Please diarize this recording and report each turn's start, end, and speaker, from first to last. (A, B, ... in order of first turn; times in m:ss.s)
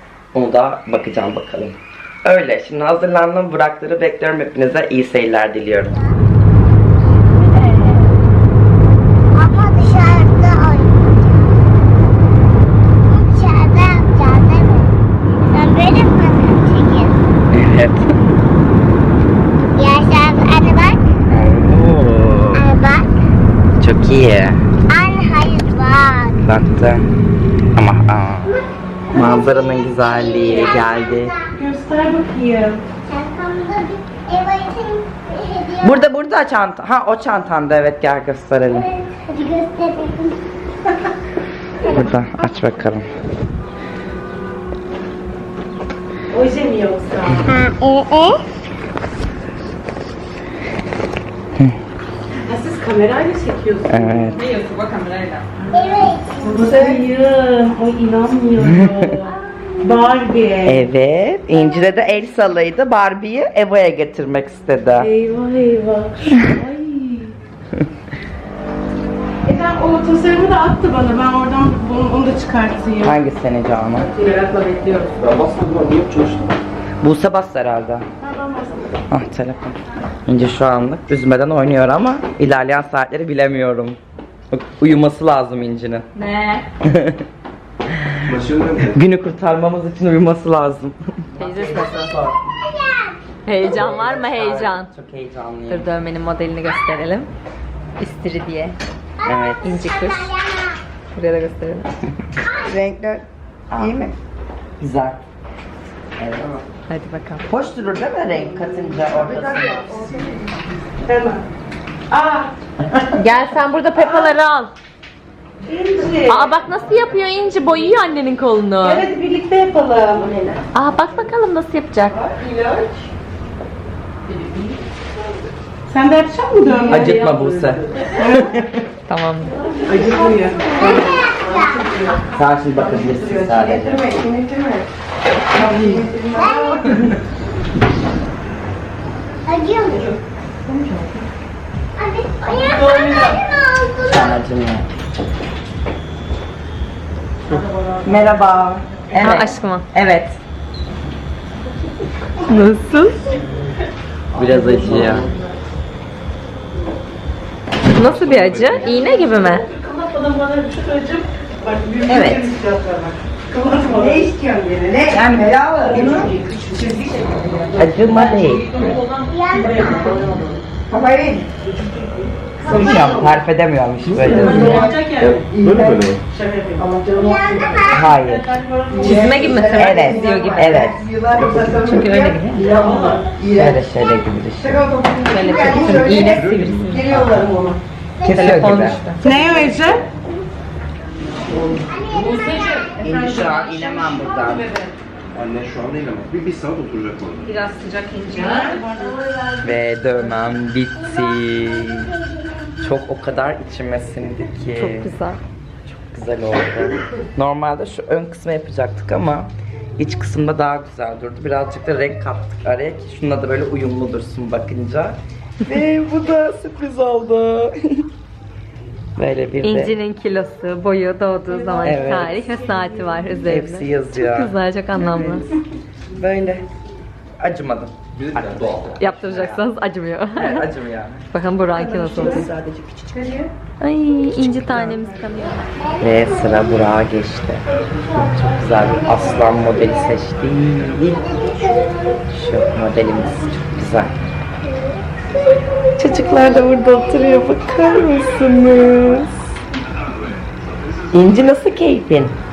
0:00.3-0:05.9 A
0:07.0-0:08.1 B
0:09.3-0:11.6 B
0:13.0-0:17.2 B
0:17.5-0:18.1 A
0:19.6-0:21.1 B
0:21.3-0:22.6 A
0:22.5-0:23.1 B
0:23.8-0:24.6 A
0:24.9-0:26.4 B
0:26.4-0:27.1 A
0:27.7-0:28.5 A
0:29.1-0:31.5 B
0:29.1-0:31.4 A
0:31.6-0:32.8 C
0:33.0-0:36.1 B
0:35.8-0:38.9 A
0:38.7-0:40.4 B
0:41.8-0:42.1 C
0:41.8-0:43.0 A
0:46.3-0:47.5 C
0:47.4-0:48.4 B
0:52.4-0:54.5 C
0:53.9-0:54.4 A
0:54.4-0:55.4 D
0:55.6-1:00.9 C
0:55.7-0:57.0 B
0:58.6-0:59.1 A
1:00.6-1:05.1 A
1:05.0-1:07.4 C
1:09.4-1:13.2 C
1:13.0-1:14.1 A
1:14.1-1:15.1 C
1:14.2-1:15.0 D
1:15.2-1:16.5 E
1:17.0-1:18.0 A
1:18.2-1:18.9 C
1:19.1-1:24.0 A
1:24.5-1:26.1 A
1:26.1-1:26.6 D
1:26.8-1:27.2 A
1:28.3-1:29.0 E
1:28.8-1:32.4 A
1:31.4-1:32.1 D
1:32.6-1:33.2 B
1:33.4-1:34.9 D
1:33.6-1:35.9 A
1:35.7-1:37.3 D
1:38.0-1:38.8 D
1:39.2-1:40.8 B
1:39.2-1:39.6 A
1:39.6-1:40.3 D
1:41.1-1:41.9 D
1:42.4-1:42.8 B
1:42.7-1:44.1 A
1:44.8-1:45.2 A
1:46.2-1:46.6 A
1:46.9-1:47.4 D
1:47.5-1:49.9 A
1:48.7-1:51.4 C
1:52.1-1:52.5 C
1:53.1-1:54.7 D
1:54.0-1:54.3 C
1:55.6-1:56.8 C
1:56.2-1:59.1 D
1:58.8-2:00.7 C
2:00.7-2:02.2 D
2:02.1-2:03.0 C
2:04.3-2:04.8 C
2:05.9-2:08.6 C
2:06.9-2:08.8 A
2:09.1-2:09.6 D
2:09.6-2:12.1 B
2:09.8-2:14.9 C
2:12.3-2:14.0 A
2:15.5-2:17.0 C
2:15.6-2:15.9 A
2:16.3-2:17.0 B
2:19.4-2:20.2 B
2:19.9-2:20.2 C
2:20.6-2:21.2 D
2:22.0-2:24.4 B
2:22.5-2:23.4 C
2:24.0-2:24.9 A
2:27.5-2:28.5 C
2:28.0-2:30.4 A
2:29.1-2:29.9 D
2:32.5-2:33.3 D
2:34.3-2:35.5 C
2:34.3-2:35.3 A
2:34.8-2:35.3 E
2:37.9-2:39.6 D
2:37.9-2:39.0 E
2:38.7-2:45.3 C
2:42.0-2:42.5 A
2:45.0-2:46.3 A
2:45.8-2:53.4 C
2:47.8-2:48.8 A
2:48.7-2:49.9 D
2:49.2-2:50.3 B
2:52.6-2:55.5 A
2:54.1-2:56.2 E
2:54.2-3:03.8 C
2:54.5-2:54.8 D
2:57.1-2:58.1 B
2:57.9-2:58.5 A
2:58.9-3:00.9 D
2:59.7-3:01.8 A
3:01.5-3:02.7 D
3:02.8-3:03.3 B
3:03.4-3:04.9 A
3:04.6-3:07.8 C
3:05.3-3:07.2 D
3:05.6-3:07.4 E
3:08.2-3:10.4 B
3:08.2-3:09.0 A
3:08.3-3:09.2 D
3:09.2-3:10.0 C
3:11.5-3:14.9 C
3:11.8-3:13.0 B
3:12.4-3:12.8 D
3:13.0-3:14.7 A
3:15.3-3:17.6 E
3:17.4-3:19.2 D
3:18.3-3:19.6 C
3:19.6-3:22.1 A
3:21.0-3:22.9 B
3:22.8-3:25.1 A
3:24.7-3:25.4 D
3:25.8-3:38.0 A
3:39.2-3:39.9 A
3:39.6-3:45.5 D
3:41.5-3:43.3 C
3:41.8-3:42.4 A
3:43.4-3:44.5 A
3:44.9-3:45.6 C
3:46.1-3:46.7 A
3:47.4-3:49.6 A
3:48.1-3:49.0 E
3:49.0-3:50.7 D
3:50.3-3:51.3 A
3:51.3-3:52.5 D
3:51.7-3:53.5 C
3:53.8-3:55.7 D
3:54.4-3:55.3 C
3:55.8-3:57.0 B
3:56.0-4:01.7 A
3:57.7-4:00.2 B
4:00.9-4:03.5 B
4:02.3-4:04.2 A
4:04.6-4:09.2 B
4:06.0-4:09.5 A
4:10.1-4:11.5 E
4:11.1-4:12.4 A